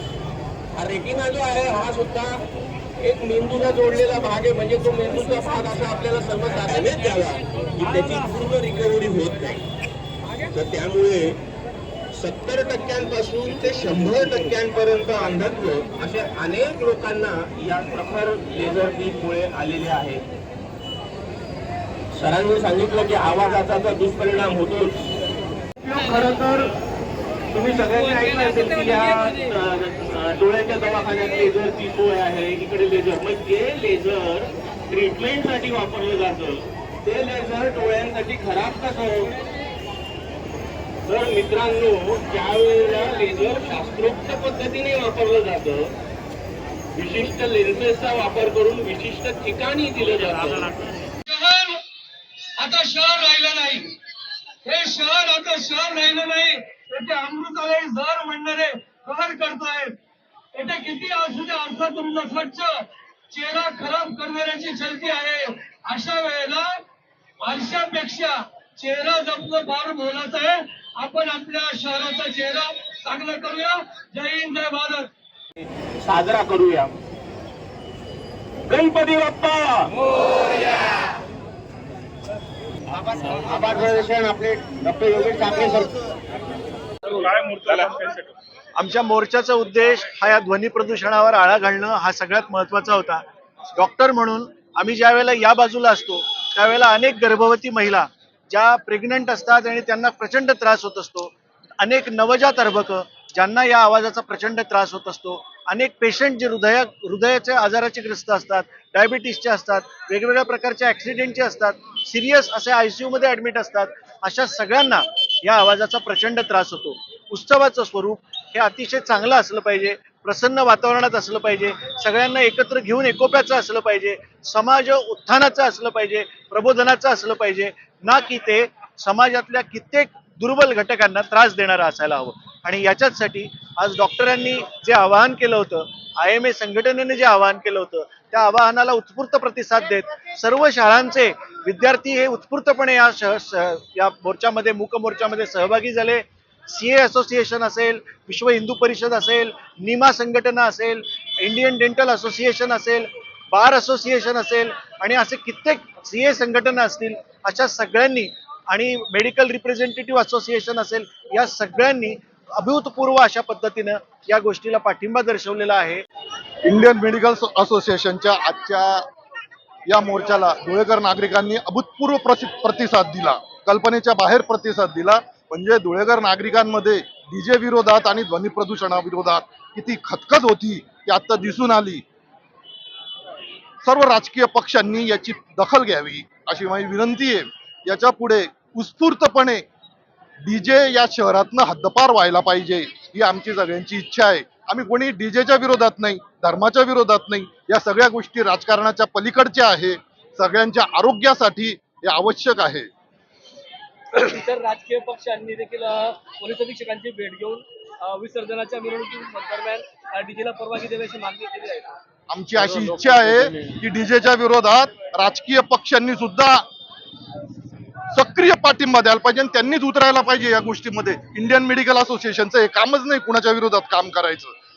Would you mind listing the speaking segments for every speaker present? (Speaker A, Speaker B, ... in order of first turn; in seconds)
Speaker A: 0.7-2.4, 3.0-9.6, 10.5-11.4, 12.1-20.2, 22.1-25.0, 25.8-26.7, 27.5-39.3, 41.0-45.9, 46.9-50.8, 76.0-76.9, 78.7-79.9, 83.3-85.9
Speaker B: 51.2-51.8, 52.6-54.0, 54.6-60.0, 60.5-66.8, 67.4-75.1
Speaker C: 88.8-166.0
Speaker D: 166.7-169.0, 169.9-182.0, 183.8-189.6, 190.4-202.9, 212.3-216.7, 218.1-224.5
Speaker E: 204.1-212.0, 212.6-213.6